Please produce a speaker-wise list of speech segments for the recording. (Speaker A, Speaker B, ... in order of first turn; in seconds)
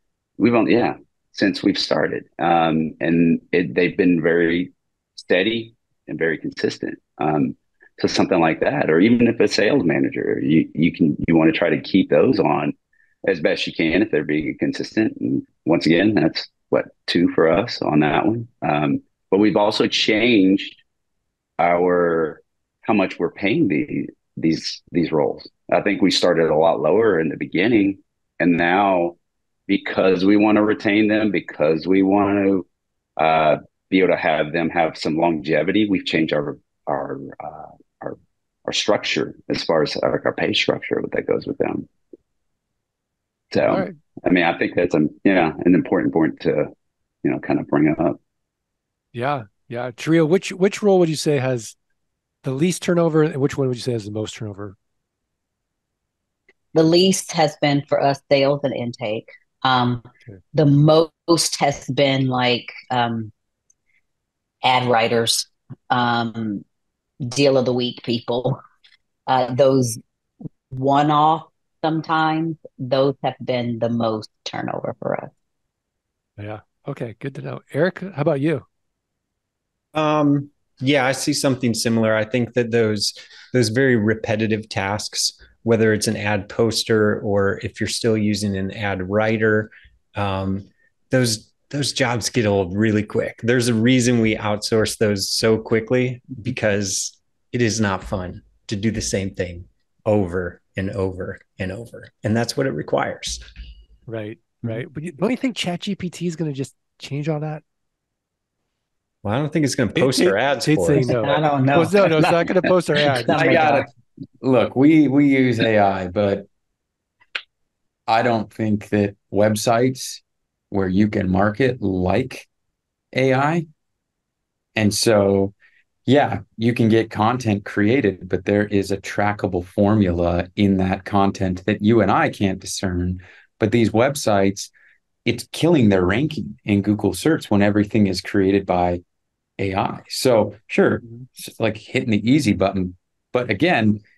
Speaker A: 0.4-20.8, 21.6-29.1, 29.7-32.6, 33.2-41.9, 43.5-46.7, 47.2-48.2, 113.3-113.7
Speaker B: 43.7-43.9, 49.1-51.8, 52.4-54.8, 76.4-78.6, 104.1-107.6, 110.0-113.8
Speaker C: 56.7-63.3, 64.6-66.6, 67.2-68.6, 69.3-70.0, 70.7-75.3, 111.0-112.2, 113.2-113.9
Speaker D: 79.9-103.4, 109.2-111.1
Speaker E: 114.4-116.5, 118.1-122.5, 123.1-123.7, 124.7-125.5, 126.0-134.7, 135.2-139.0, 139.6-144.0